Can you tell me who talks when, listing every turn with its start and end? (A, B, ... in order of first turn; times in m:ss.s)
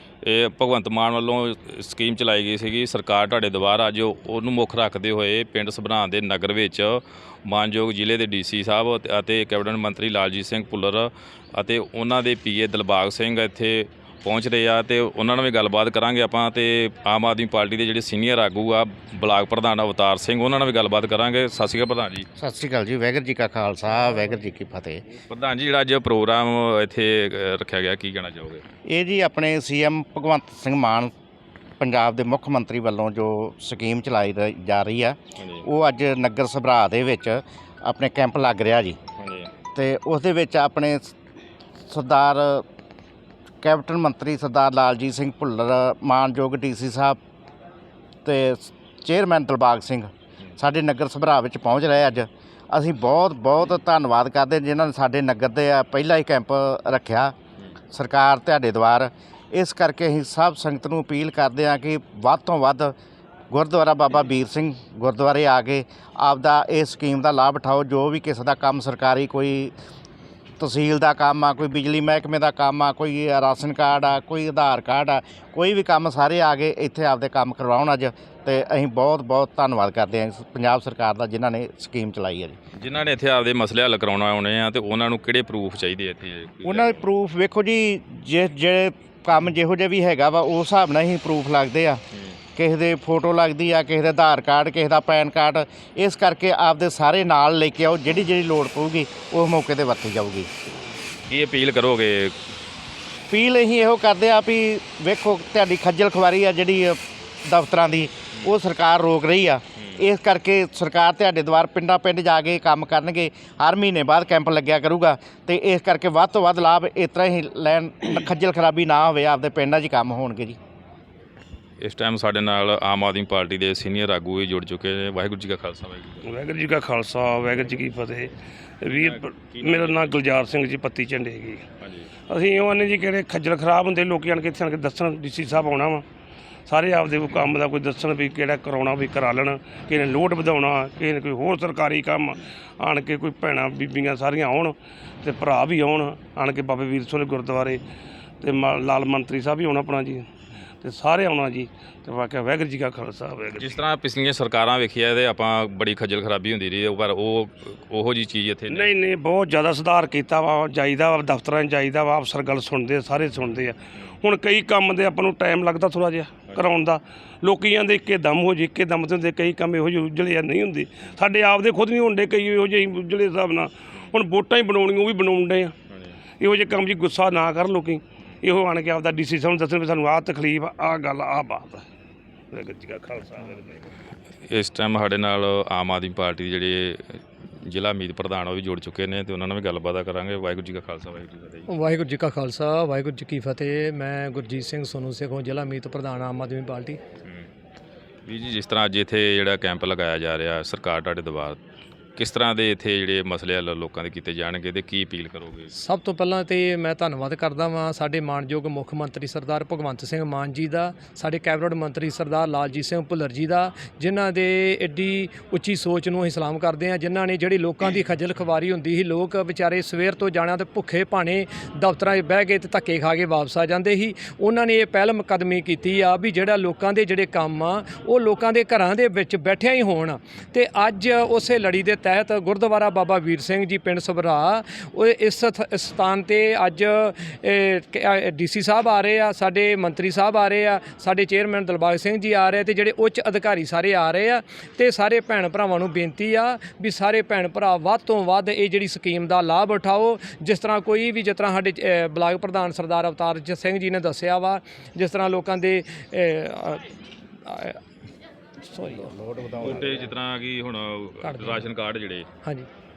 0:00.2-0:22.3 A
0:22.4-0:25.0 B
0:25.3-0:28.6 A
0:28.9-0:31.1 B
0:31.8-0:39.0 B
0:35.4-0:35.7 A
0:39.2-0:39.5 A
0:39.8-0:41.1 B
0:41.9-0:42.6 B
0:43.6-0:47.2 B
0:48.2-0:57.3 B
0:57.9-1:03.0 B
1:03.5-1:09.7 B
1:10.6-1:22.6 B
1:22.8-1:27.0 A
1:26.7-1:32.0 B
1:32.1-1:32.4 A
1:32.6-1:40.5 B
1:41.3-1:42.4 A
1:43.3-2:00.6 B
1:49.8-1:50.0 A
2:01.8-2:06.3 A
2:06.2-2:11.6 C
2:09.0-2:10.1 A
2:11.8-2:12.1 A
2:12.3-2:16.0 C
2:16.7-2:27.8 C
2:28.4-2:30.2 C
2:30.8-2:33.8 C
2:33.6-2:38.9 A
2:38.7-2:55.7 C
2:53.9-2:54.2 A
2:55.9-2:56.2 A
2:56.4-3:01.9 C
3:02.5-3:03.8 C
3:04.5-3:11.7 A
3:11.7-3:17.0 D
3:18.3-3:21.6 A
3:22.2-3:25.7 A
3:25.7-4:16.9 D
4:17.4-4:17.8 D
4:18.6-4:19.1 D
4:19.0-4:20.2 B
4:19.6-4:22.3 A
4:21.2-4:21.7 D
4:22.4-4:22.7 D